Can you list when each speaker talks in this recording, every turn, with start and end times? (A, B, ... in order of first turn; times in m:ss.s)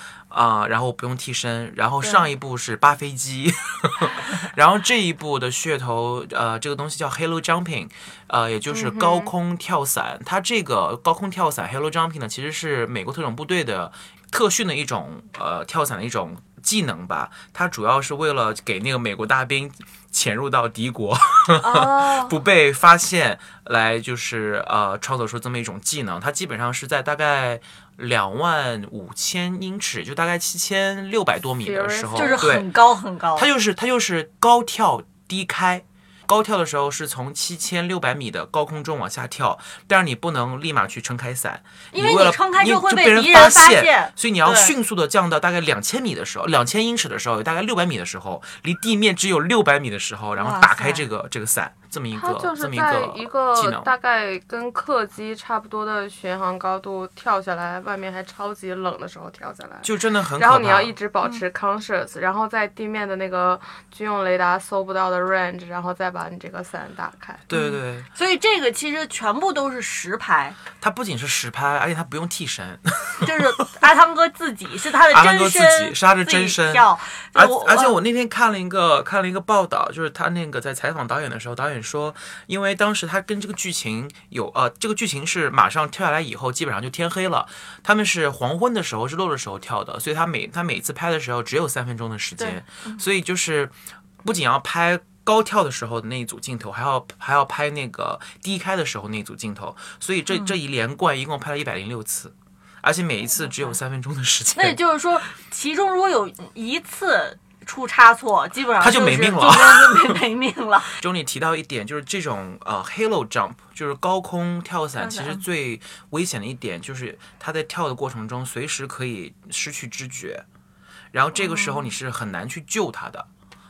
0:00.3-0:32.7 A
0:08.7-0:09.3 B
0:21.6-0:22.4 C
0:31.6-0:32.4 B
0:32.2-0:33.5 C
0:33.4-0:53.9 A
0:41.9-0:44.8 C
0:50.4-0:51.1 C
0:52.2-1:07.5 B
0:59.8-1:00.9 A
1:07.5-1:08.1 A
1:07.5-1:10.6 C
1:10.8-1:13.7 A
1:13.2-1:18.0 C
1:15.1-1:44.8 A
1:32.4-1:33.0 C
1:43.4-1:43.8 C
1:44.6-1:51.0 C
1:48.8-1:50.2 A
1:51.0-2:00.4 A
1:55.0-1:55.4 C
2:01.1-2:03.3 A
2:01.4-2:01.9 C